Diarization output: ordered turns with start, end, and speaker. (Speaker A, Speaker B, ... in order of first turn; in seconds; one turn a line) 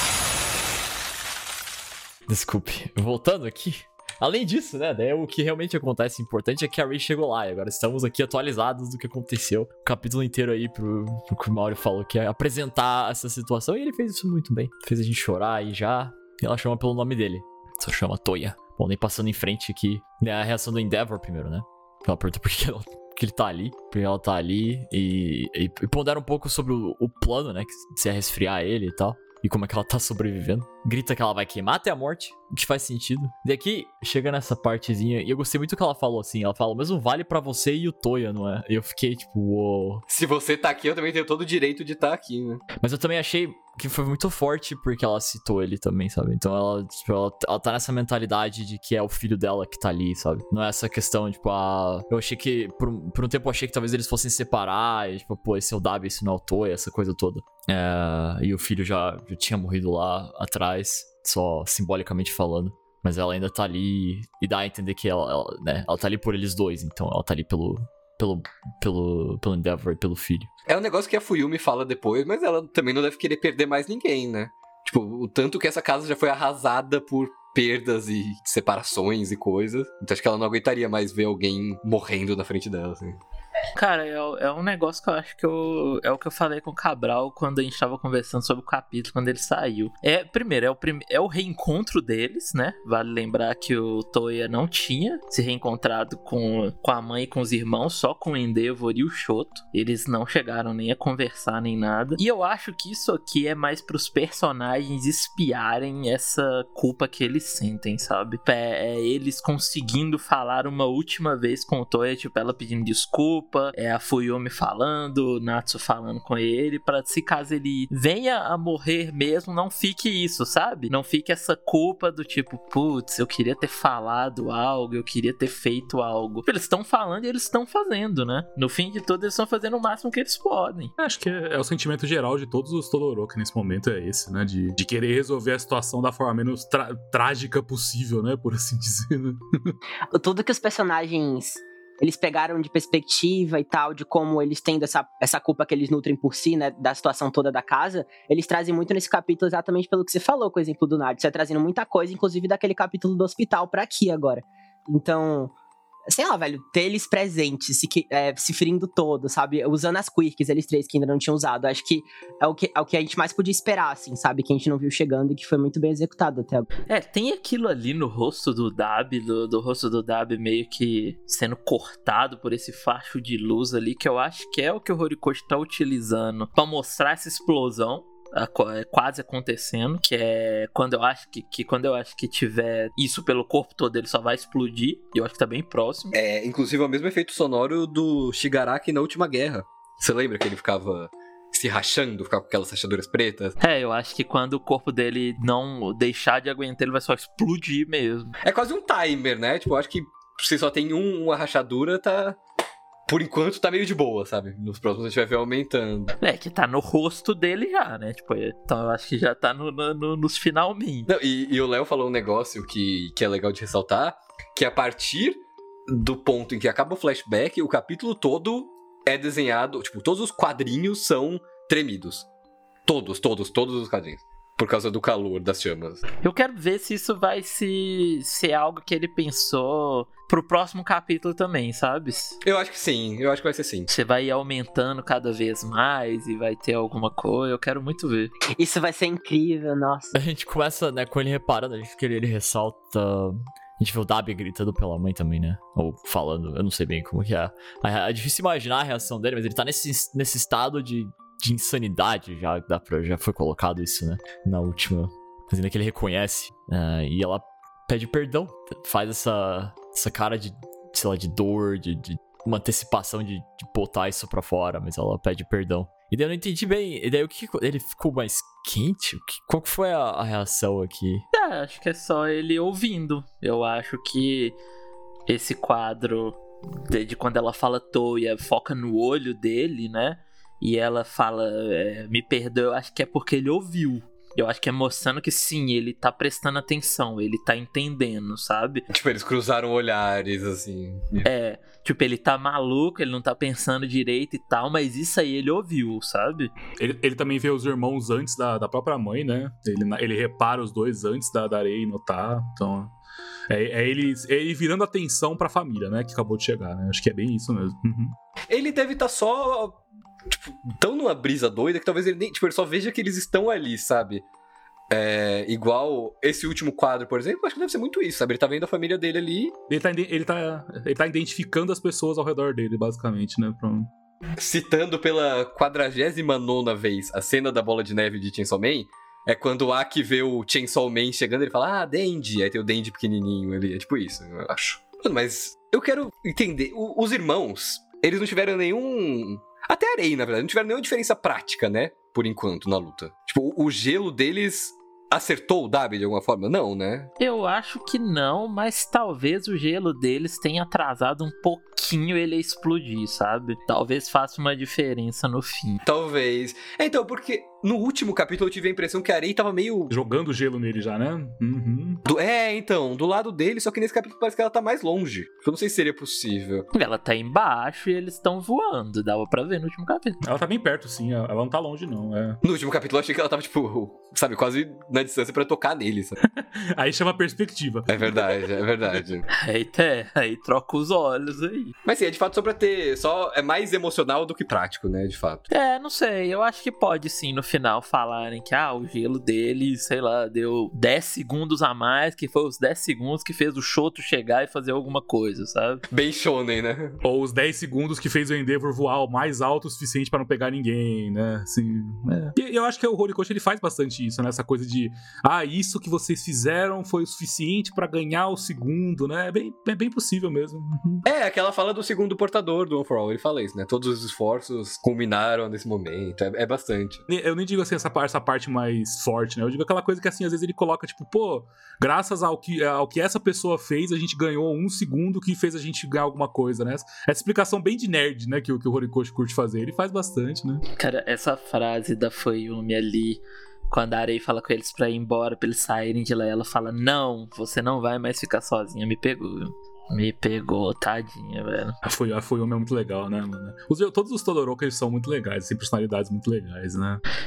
Speaker A: 2.3-40.0
Speaker B: 40.1-42.7
Speaker A: 42.8-70.5
Speaker B: 70.7-83.2
Speaker C: 83.8-130.9
Speaker D: 131.0-139.8
Speaker E: 140.1-155.5
Speaker E: 156.1-166.7
Speaker C: 166.9-186.2
Speaker B: 186.1-193.6
Speaker C: 193.6-198.3
Speaker B: 198.4-202.4
Speaker B: 203.1-206.1
Speaker C: 206.2-211.1
Speaker B: 211.1-222.3
Speaker B: 222.9-226.0
Speaker C: 226.2-232.4
Speaker B: 232.4-233.9
Speaker C: 233.9-238.3
Speaker E: 238.6-240.1
Speaker A: 240.1-271.2
Speaker C: 271.3-274.6
Speaker C: 275.3-288.9
Speaker B: 288.9-291.3
Speaker C: 291.2-296.5
Speaker D: 296.8-302.9
Speaker D: 303.5-308.1
Speaker B: 308.5-309.8
Speaker B: 310.3-314.2
Speaker B: 314.9-319.5
Speaker D: 319.7-323.9
Speaker B: 324.4-347.1
Speaker C: 347.2-355.8
Speaker B: 355.8-359.9
Speaker D: 359.9-362.0
Speaker B: 362.1-366.7
Speaker C: 366.7-370.2
Speaker D: 370.2-372.4
Speaker B: 372.4-376.2
Speaker D: 376.4-378.4
Speaker B: 377.9-379.3
Speaker C: 379.3-381.7
Speaker B: 381.9-385.5
Speaker C: 385.5-395.8
Speaker B: 395.9-397.0
Speaker D: 397.0-411.1
Speaker B: 411.1-417.0
Speaker D: 417.1-430.6
Speaker C: 430.8-441.8
Speaker D: 441.8-447.0